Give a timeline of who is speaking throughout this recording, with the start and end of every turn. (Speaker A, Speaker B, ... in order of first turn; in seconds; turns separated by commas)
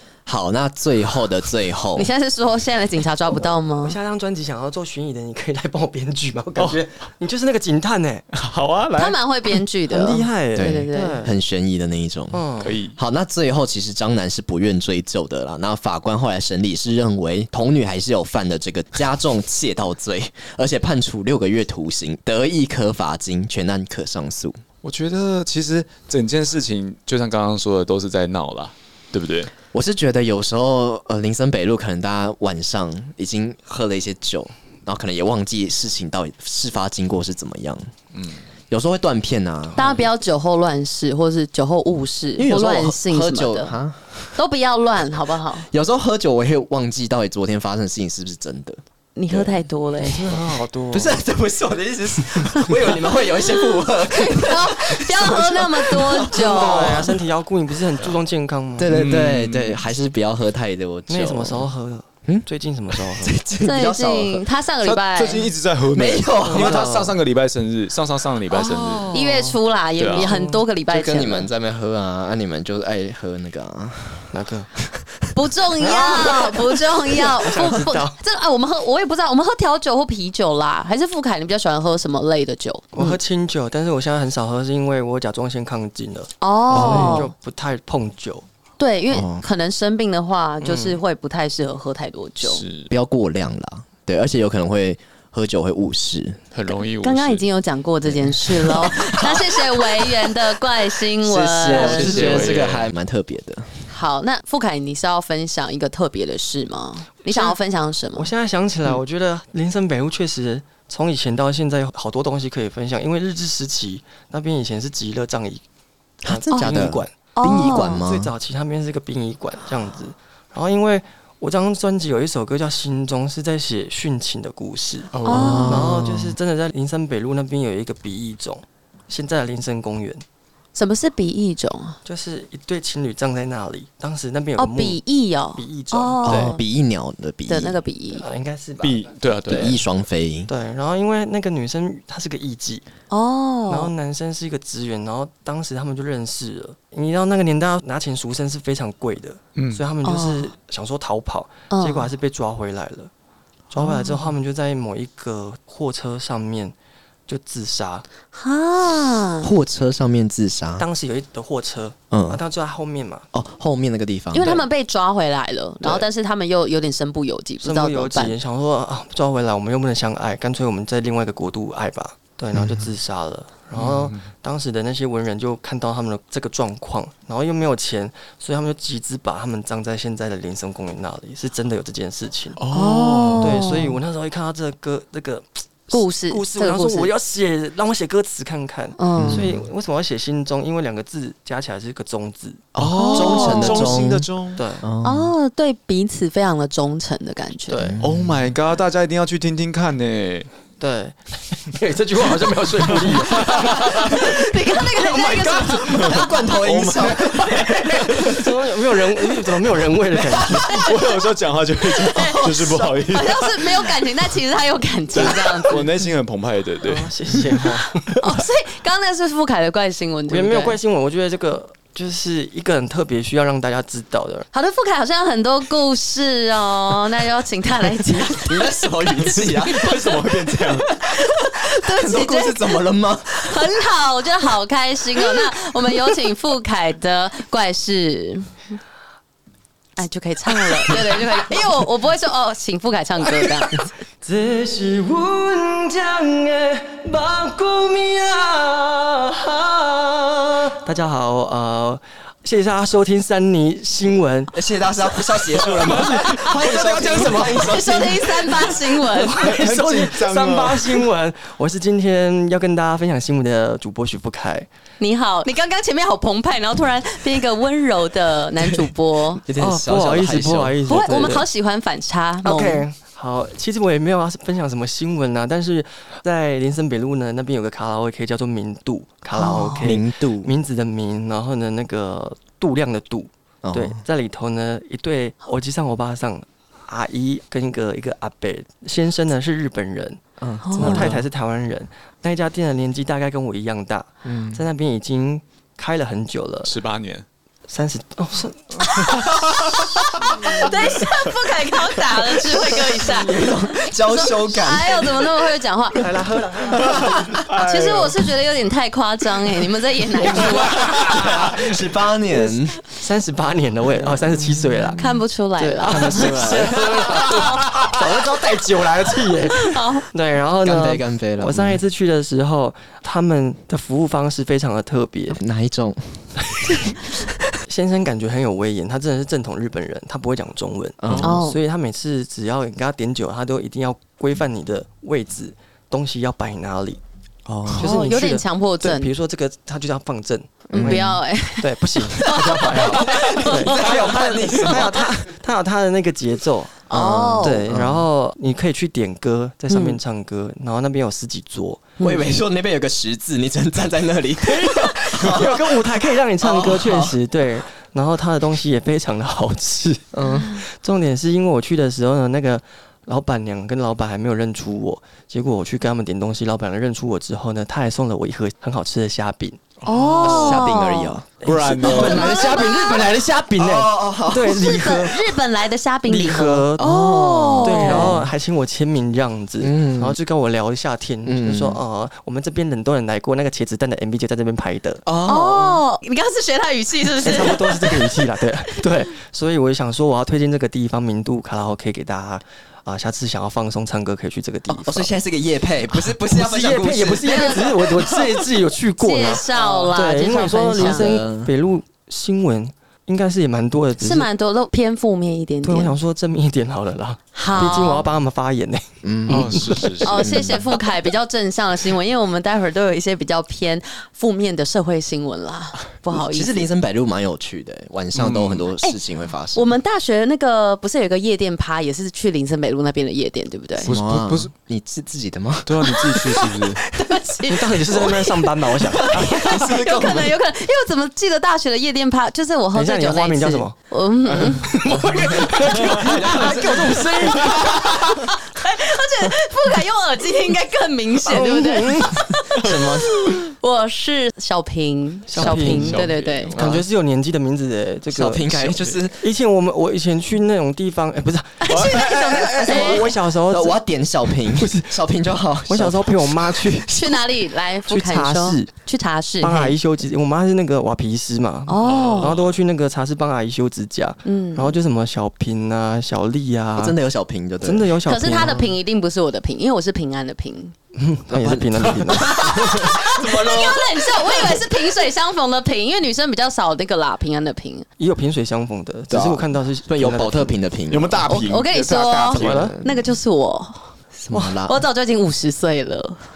Speaker A: 0.3-2.1, Speaker B: 2.0-4.0, Speaker C: 3.8-8.2, Speaker D: 6.6-6.8, Speaker D: 8.3-9.5, Speaker B: 9.0-11.2, Speaker C: 9.9-11.3, Speaker A: 10.6-12.4, Speaker C: 12.3-12.8, Speaker D: 12.6-13.0, Speaker A: 12.9-24.6, Speaker D: 24.8-29.5, Speaker A: 29.7-37.9, Speaker D: 38.1-38.4, Speaker A: 38.7-39.9, Speaker C: 39.8-40.0, Speaker B: 39.8-43.8, Speaker A: 42.4-44.4, Speaker B: 44.4-45.7, Speaker A: 45.7-49.6, Speaker B: 49.2-50.2, Speaker C: 50.0-51.2, Speaker A: 50.9-57.2, Speaker B: 54.1-57.1, Speaker C: 56.3-58.9, Speaker A: 58.8-61.7, Speaker D: 58.9-59.8, Speaker C: 61.1-63.4, Speaker A: 62.3-64.5, Speaker B: 63.6-65.5, Speaker D: 64.8-69.2, Speaker A: 65.9-67.0, Speaker C: 66.4-67.2, Speaker C: 68.5-69.6, Speaker B: 69.1-71.5, Speaker D: 70.0-70.3, Speaker C: 70.1-70.7, Speaker A: 70.9-74.3, Speaker C: 74.3-74.7, Speaker B: 75.3-83.2, Speaker C: 75.8-78.2, Speaker C: 82.9-88.5, Speaker B: 86.4-87.3, Speaker A: 86.7-87.3, Speaker B: 88.8-92.6, Speaker A: 89.1-89.5, Speaker C: 90.6-91.0, Speaker D: 92.4-92.9, Speaker A: 92.9-96.4, Speaker D: 96.5-97.5, Speaker B: 97.0-102.4, Speaker A: 98.1-100.1, Speaker A: 101.2-103.7, Speaker D: 101.7-102.9, Speaker B: 103.9-108.3, Speaker C: 107.3-107.6, Speaker C: 108.2-115.6, Speaker A: 116.2-118.3, Speaker C: 116.2-130.2, Speaker B: 116.5-116.8, Speaker B: 117.3-118.0, Speaker D: 125.1-125.7, Speaker B: 125.2-125.9, Speaker A: 125.3-126.4, Speaker B: 130.8-132.0, Speaker C: 132.1-135.0, Speaker B: 134.6-136.6, Speaker C: 135.6-136.6, Speaker A: 136.2-137.8, Speaker B: 137.5-138.2, Speaker C: 138.1-139.1, Speaker D: 138.8-139.8, Speaker A: 139.5-140.5, Speaker C: 140.5-142.8, Speaker B: 143.1-143.9, Speaker C: 143.7-153.1, Speaker D: 149.6-149.8, Speaker B: 150.0-150.5, Speaker B: 151.7-152.1, Speaker C: 153.7-156.8, Speaker B: 153.8-154.1, Speaker C: 157.3-158.1, Speaker B: 158.3-159.5, Speaker A: 159.4-160.9, Speaker C: 160.8-163.3, Speaker A: 162.1-162.4, Speaker A: 163.3-164.7, Speaker B: 164.3-168.4, Speaker C: 167.6-182.6, Speaker D: 173.8-174.2, Speaker D: 182.6-183.7, Speaker B: 182.7-184.0, Speaker C: 183.4-192.7, Speaker B: 185.9-187.1, Speaker B: 189.0-189.5, Speaker A: 189.2-189.7, Speaker A: 192.8-194.3, Speaker D: 192.8-194.6, Speaker B: 192.9-193.9, Speaker C: 194.6-194.9, Speaker A: 194.8-195.3, Speaker B: 195.0-197.9, Speaker C: 197.7-198.0, Speaker A: 197.9-198.5, Speaker D: 198.0-200.5, Speaker C: 200.8-206.3, Speaker D: 202.9-204.0, Speaker B: 203.8-206.3, Speaker D: 205.9-208.3, Speaker A: 206.0-208.5, Speaker C: 208.2-210.8, Speaker A: 210.2-210.6, Speaker D: 210.7-213.8, Speaker B: 210.7-211.1, Speaker B: 212.0-215.8, Speaker A: 212.2-212.8, Speaker D: 215.1-217.1, Speaker C: 216.8-218.2, Speaker B: 218.1-220.8, Speaker C: 220.3-224.5, Speaker B: 224.5-230.2, Speaker A: 228.3-230.0, Speaker D: 229.2-230.9, Speaker A: 231.1-233.7, Speaker B: 231.1-232.8, Speaker B: 233.4-238.5, Speaker B: 240.0-243.8, Speaker C: 244.2-264.7, Speaker A: 254.5-258.5, Speaker D: 255.8-256.2, Speaker D: 256.7-257.3, Speaker B: 257.5-259.5, Speaker D: 259.3-261.1, Speaker B: 265.0-269.4, Speaker A: 269.4-270.8, Speaker C: 269.6-271.4, Speaker B: 270.9-272.9, Speaker C: 272.4-290.2, Speaker B: 279.3-279.9, Speaker A: 279.8-280.5, Speaker A: 283.6-284.0, Speaker A: 290.4-291.2, Speaker B: 290.6-291.2, Speaker C: 290.8-296.7, Speaker A: 294.2-294.6, Speaker D: 296.6-297.2, Speaker C: 297.7-299.3, Speaker B: 298.8-303.5, Speaker C: 300.5-300.8, Speaker A: 302.6-305.3, Speaker B: 304.0-306.1, Speaker C: 306.0-307.5, Speaker D: 307.4-308.1, Speaker B: 307.5-311.4, Speaker C: 310.3-311.8, Speaker A: 310.4-312.8, Speaker D: 310.7-311.4, Speaker C: 312.4-315.0, Speaker A: 314.3-315.1, Speaker B: 315.0-316.5, Speaker C: 315.6-325.4, Speaker A: 315.7-317.2, Speaker B: 317.3-317.6, Speaker B: 319.5-320.1, Speaker A: 320.6-321.8, Speaker A: 325.3-327.4, Speaker C: 327.7-337.0, Speaker A: 331.0-331.4, Speaker B: 331.2-331.6, Speaker A: 337.5-338.0, Speaker B: 337.7-339.1, Speaker C: 337.8-346.8, Speaker B: 340.7-343.9, Speaker A: 340.7-341.2, Speaker A: 342.6-345.1, Speaker B: 346.9-347.7, Speaker A: 346.9-348.1, Speaker C: 347.4-352.0, Speaker B: 349.7-350.0, Speaker B: 352.0-352.3, Speaker A: 352.0-355.9, Speaker C: 354.5-370.5, Speaker A: 356.4-357.2, Speaker A: 360.1-360.6, Speaker D: 369.9-370.6, Speaker B: 369.9-371.2, Speaker A: 370.2-372.9, Speaker D: 371.4-372.4, Speaker C: 371.4-375.4, Speaker B: 371.8-373.2, Speaker A: 373.6-374.7, Speaker B: 374.4-378.1, Speaker C: 376.1-376.9, Speaker A: 376.8-378.3, Speaker C: 377.6-385.1, Speaker A: 379.6-380.2, Speaker A: 381.2-381.8, Speaker A: 385.1-385.8, Speaker B: 385.2-388.3, Speaker C: 387.2-395.1, Speaker A: 394.7-398.0, Speaker C: 396.2-404.3, Speaker B: 397.2-398.0, Speaker B: 399.0-401.1, Speaker A: 400.0-401.5, Speaker B: 404.0-406.0, Speaker C: 405.6-409.9, Speaker B: 407.3-408.1, Speaker A: 409.0-410.8, Speaker D: 409.3-410.4, Speaker B: 410.0-416.7, Speaker A: 416.1-419.7, Speaker D: 418.1-418.6, Speaker B: 419.5-423.9, Speaker D: 423.8-424.5, Speaker A: 423.9-425.9, Speaker D: 425.7-426.9, Speaker B: 426.9-434.9, Speaker C: 427.5-429.3, Speaker A: 428.9-430.4, Speaker C: 432.7-433.8, Speaker C: 434.3-437.9, Speaker A: 434.9-438.0, Speaker B: 437.3-446.5, Speaker C: 441.2-443.3, Speaker C: 445.3-453.8, Speaker D: 445.4-446.7, Speaker A: 446.6-446.9, Speaker A: 448.1-449.2, Speaker B: 451.6-453.1, Speaker D: 451.7-453.1, Speaker A: 453.5-456.6, Speaker C: 454.4-455.0, Speaker C: 455.7-457.2, Speaker B: 456.9-459.8, Speaker C: 457.9-458.7, Speaker C: 459.4-467.0, Speaker B: 461.7-462.4, Speaker D: 461.8-462.6, Speaker B: 464.2-464.8, Speaker A: 466.8-468.7, Speaker C: 467.6-468.7, Speaker B: 468.1-470.7, Speaker C: 470.9-472.9, Speaker A: 471.3-474.6, Speaker B: 472.6-477.9, Speaker C: 478.0-480.6, Speaker A: 479.1-481.2, Speaker D: 480.9-482.8, Speaker B: 481.3-483.9, Speaker C: 482.4-482.8, Speaker A: 482.4-483.0, Speaker A: 484.2-484.8, Speaker C: 484.3-484.6, Speaker B: 484.7-486.2